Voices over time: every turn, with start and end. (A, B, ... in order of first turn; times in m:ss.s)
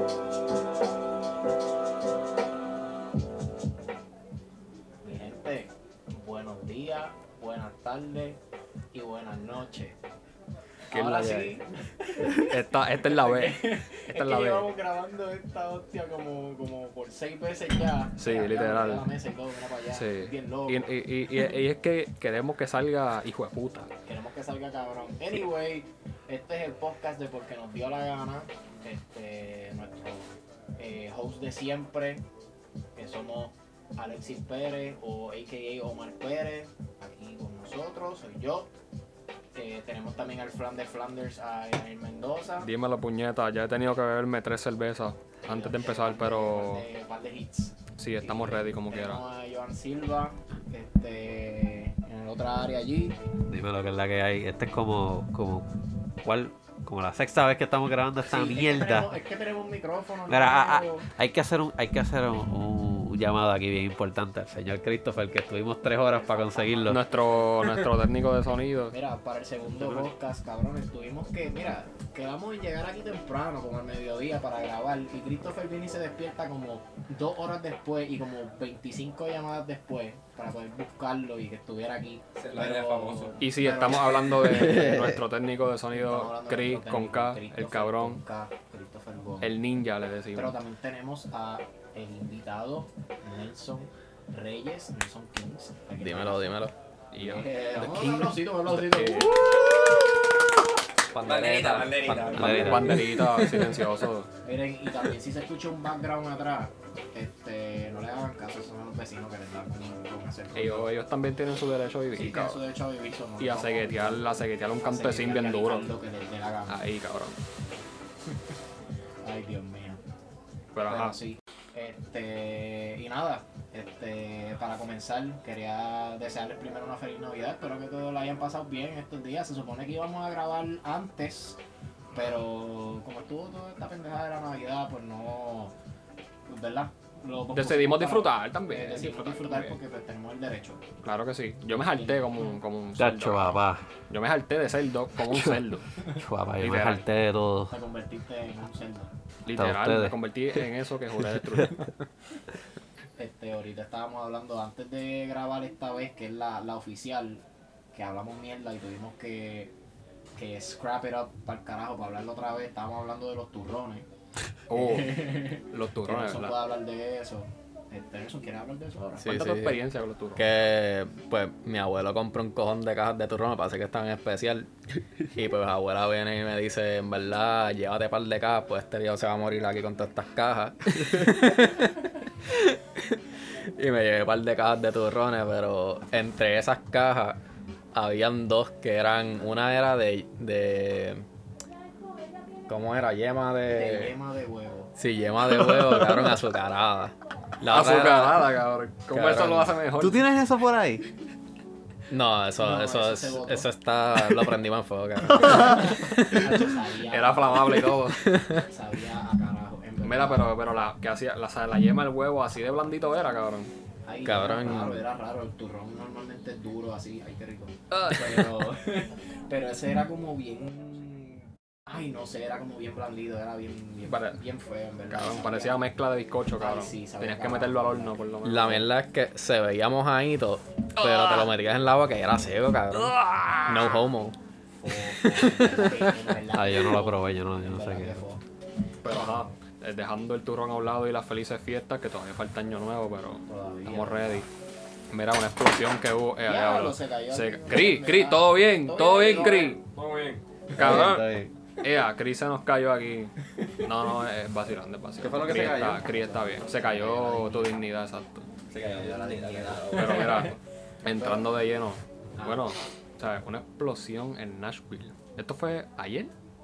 0:05.0-0:08.4 A
0:08.9-0:10.0 A
0:10.9-0:11.6 B
0:10.9-0:20.9 A
0:12.4-0:14.7 B
0:18.2-0:19.1 B
0:19.9-0:23.9 B
0:24.1-0:32.2 A
0:33.0-0:38.7 A
0:39.5-0:42.7 A
0:42.6-0:46.9 B
0:45.4-0:53.2 A
0:48.0-0:49.2 B
0:53.5-0:55.7 C
0:56.2-0:59.2 C
0:58.2-1:01.1 A
1:00.3-1:07.0 C
1:06.1-1:07.9 A
1:06.9-1:09.0 B
1:08.9-1:24.8 A
1:22.4-1:23.4 D
1:23.4-1:28.2 B
1:24.4-1:25.2 C
1:25.9-1:29.5 A
1:29.4-1:30.6 B
1:30.3-1:40.1 A
1:36.0-1:36.7 E
1:37.1-1:37.5 B
1:37.8-1:38.4 C
1:38.7-1:39.4 B
1:41.1-1:43.7 E
1:41.2-1:42.7 D
1:42.1-1:43.0 A
1:42.3-1:43.0 C
1:42.3-1:44.3 B
1:44.4-1:50.9 A
1:50.5-1:52.6 B
1:52.1-1:54.3 A
1:53.4-1:55.9 B
1:54.8-1:56.8 A
1:56.7-1:57.4 B
1:59.2-2:00.0 A
2:00.7-2:01.2 B
2:00.9-2:11.6 A
2:12.1-2:15.7 A
2:16.5-2:20.8 A
2:17.5-2:19.8 B
2:21.0-2:25.9 B
2:21.9-2:22.6 A
2:23.0-2:23.8 C
2:25.3-2:27.8 C
2:26.6-2:27.0 B
2:27.7-2:29.1 A
2:29.4-2:31.9 B
2:29.5-2:30.2 C
2:33.2-2:39.7 A
2:40.4-2:44.1 A
2:44.7-2:46.6 B
2:44.7-2:49.4 A
2:49.2-2:49.8 E
2:49.2-2:50.6 B
2:50.4-3:07.4 E
3:07.9-3:11.2 E
3:12.7-3:14.2 E
3:13.7-3:14.9 A
3:15.0-3:18.5 E
3:17.7-3:20.2 B
3:19.1-3:19.8 E
3:20.0-3:21.1 C
3:22.1-3:26.7 E
3:22.6-3:23.7 A
3:25.3-3:27.9 A
3:25.4-3:25.8 C
3:27.1-3:28.4 B
3:28.2-3:28.6 E
3:28.6-3:30.5 A
3:30.0-3:33.7 B
3:34.1-3:45.8 A
3:34.2-3:35.1 E
3:37.9-3:38.5 B
3:44.1-3:44.4 B
3:45.1-3:48.9 B
3:46.6-3:48.2 A
3:48.4-3:54.4 E
3:51.0-3:51.5 B
3:53.0-3:54.0 B
3:54.8-3:58.4 A
3:55.1-3:56.3 E
3:56.5-3:58.2 C
3:59.0-4:04.5 B
3:59.0-3:59.5 A
4:03.5-4:04.4 A
4:05.1-4:09.8 B
4:06.4-4:09.8 A
4:09.3-4:10.4 D
4:10.7-4:11.5 C
4:10.8-4:11.3 B
4:11.8-4:18.5 B
4:15.2-4:16.3 D
4:15.4-4:17.8 A
4:18.7-4:20.5 D
4:18.8-4:20.5 A
4:19.9-4:26.3 B
4:21.0-4:21.6 A
4:22.4-4:22.7 A